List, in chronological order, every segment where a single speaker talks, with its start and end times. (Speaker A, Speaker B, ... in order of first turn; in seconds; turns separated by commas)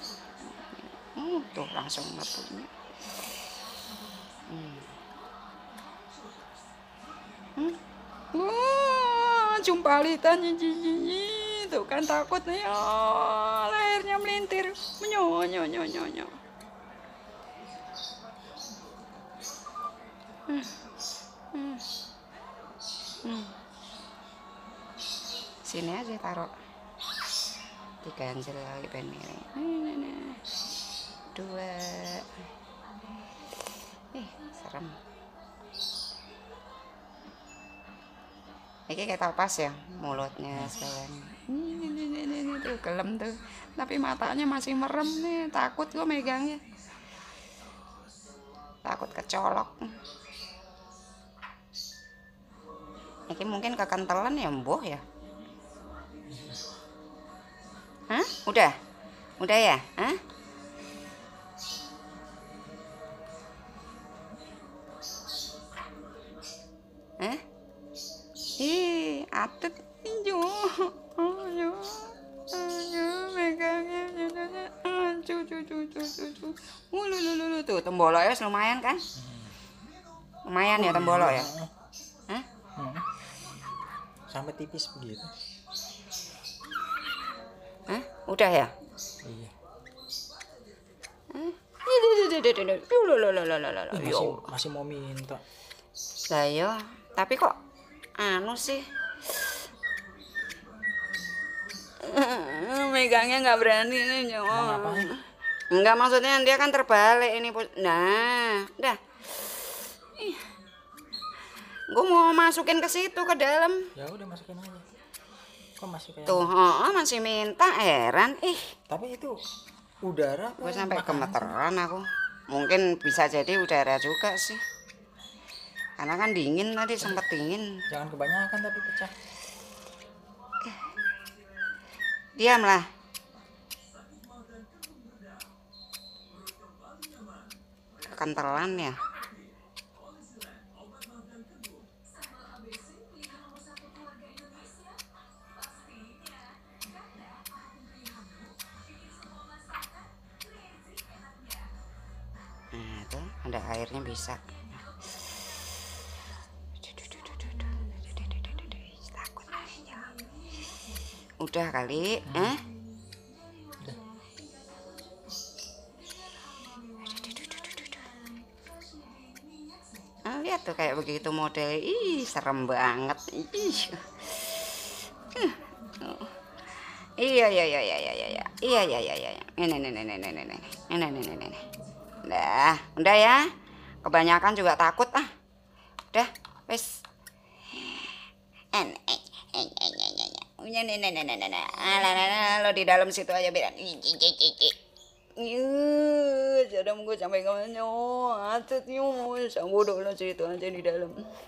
Speaker A: 0.4-2.7, Speaker A: 4.5-4.9, Speaker A: 8.3-16.3, Speaker A: 21.5-21.8, Speaker A: 23.2-23.5, Speaker A: 25.6-26.5, Speaker A: 28.0-30.4, Speaker A: 31.3-32.3, Speaker A: 34.1-35.0, Speaker A: 38.9-46.6, Speaker A: 48.8-49.9, Speaker A: 53.3-55.0, Speaker A: 58.1-58.7, Speaker A: 59.4-60.2, Speaker A: 68.6-79.0, Speaker B: 79.1-79.5, Speaker A: 80.5-81.5, Speaker B: 80.8-81.7, Speaker B: 82.8-83.0, Speaker B: 84.3-85.3, Speaker A: 87.9-88.7, Speaker B: 89.2-89.5, Speaker A: 91.3-94.5, Speaker B: 93.9-95.4, Speaker A: 96.3-97.5, Speaker A: 98.2-98.8, Speaker A: 102.0-109.0, Speaker B: 104.5-105.1, Speaker A: 110.2-110.5, Speaker A: 111.9-113.9, Speaker B: 114.0-114.9, Speaker B: 115.8-116.5, Speaker A: 116.3-118.7, Speaker B: 118.9-119.3, Speaker B: 120.0-121.6, Speaker A: 120.6-124.6, Speaker A: 126.0-127.7, Speaker B: 127.9-129.1, Speaker A: 132.4-132.8, Speaker A: 138.1-139.0, Speaker A: 152.7-154.5, Speaker A: 156.8-160.2, Speaker A: 161.4-162.6, Speaker B: 162.3-162.6, Speaker A: 166.9-168.2, Speaker A: 170.2-176.3, Speaker A: 177.2-181.6, Speaker A: 182.2-183.4, Speaker A: 184.0-185.3, Speaker A: 186.1-186.9, Speaker A: 187.7-188.2, Speaker A: 188.7-194.8, Speaker A: 195.4-201.2